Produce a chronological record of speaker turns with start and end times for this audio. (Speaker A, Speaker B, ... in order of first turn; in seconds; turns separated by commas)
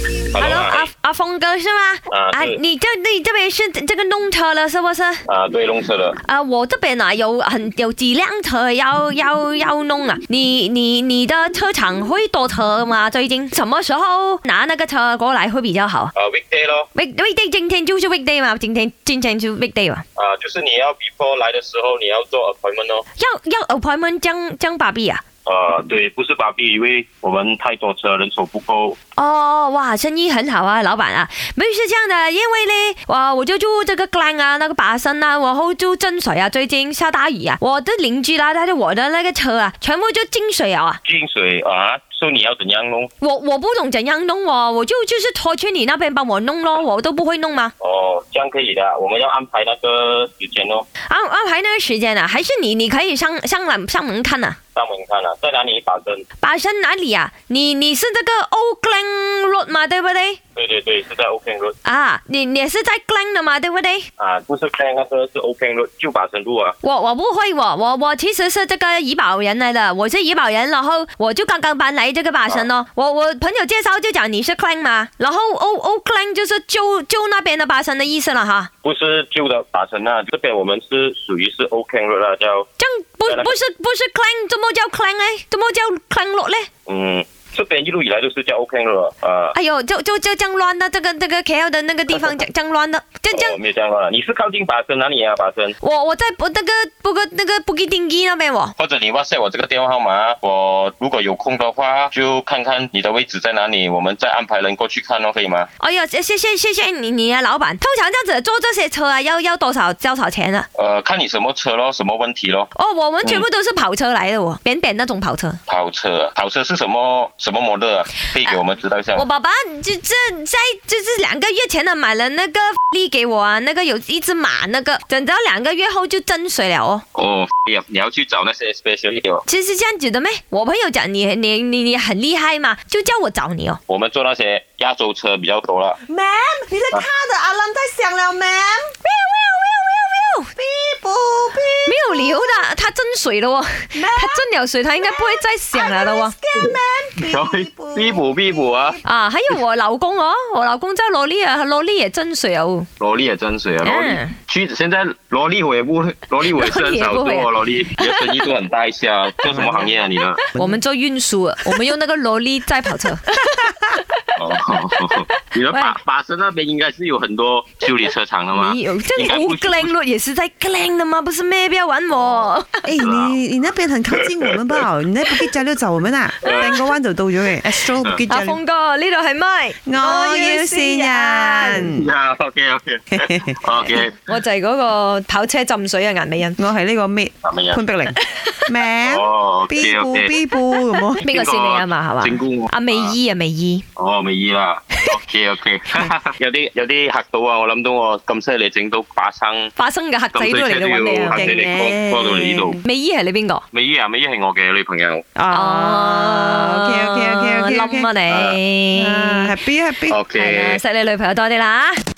Speaker A: 0.3-0.9, Speaker B: 0.3-5.2, Speaker A: 2.1-2.6, Speaker A: 5.3-6.2, Speaker B: 6.2-16.1, Speaker A: 16.1-16.9, Speaker B: 16.9-20.0, Speaker A: 20.1-23.0, Speaker B: 23.2-25.2, Speaker A: 25.4-29.0, Speaker B: 29.1-41.0, Speaker A: 41.0-43.1, Speaker B: 43.2-47.7, Speaker A: 47.8-50.9, Speaker B: 51.1-54.6, Speaker A: 54.7-56.2, Speaker B: 56.4-60.4, Speaker A: 60.5-61.8, Speaker B: 61.8-64.1, Speaker A: 64.2-66.8, Speaker B: 66.8-78.7, Speaker A: 78.8-82.7, Speaker B: 82.8-86.7, Speaker A: 83.2-83.5, Speaker A: 86.9-89.5, Speaker B: 89.5-93.6, Speaker A: 92.1-92.4, Speaker A: 93.3-95.8, Speaker B: 95.8-98.7, Speaker A: 98.8-105.7, Speaker B: 105.8-110.7, Speaker A: 110.7-112.7, Speaker B: 112.7-115.6, Speaker A: 115.7-119.2, Speaker B: 119.2-127.0, Speaker A: 127.1-129.4, Speaker B: 129.5-133.8, Speaker A: 133.9-136.0, Speaker C: 136.1-138.9, Speaker B: 139.0-140.5, Speaker C: 140.6-142.5, Speaker B: 141.8-146.3, Speaker C: 143.9-144.5, Speaker C: 145.0-149.0, Speaker A: 146.6-149.0, Speaker B: 149.0-152.9, Speaker A: 153.0-160.4, Speaker B: 153.8-154.3, Speaker B: 156.4-158.5, Speaker B: 159.4-163.5, Speaker C: 160.5-160.8, Speaker A: 164.3-169.9, Speaker B: 165.1-166.0, Speaker B: 168.5-172.9, Speaker A: 172.1-173.3, Speaker C: 172.8-178.6, Speaker A: 174.5-174.8, Speaker A: 176.4-176.8, Speaker B: 176.4-176.9, Speaker B: 178.3-181.9, Speaker C: 179.8-182.1, Speaker A: 181.7-184.2, Speaker C: 183.1-183.6, Speaker B: 183.8-186.6, Speaker C: 186.6-191.2, Speaker A: 187.4-187.8, Speaker B: 188.3-188.6, Speaker A: 189.0-190.3, Speaker B: 191.0-193.8, Speaker A: 191.2-193.2, Speaker A: 194.0-199.7, Speaker B: 199.8-201.6, Speaker A: 200.3-202.8, Speaker C: 201.3-202.8, Speaker B: 202.7-203.6, Speaker A: 203.7-205.2, Speaker C: 205.3-208.1, Speaker B: 205.5-209.6, Speaker A: 208.3-208.6, Speaker C: 208.9-210.2, Speaker A: 210.1-210.8, Speaker B: 210.3-212.0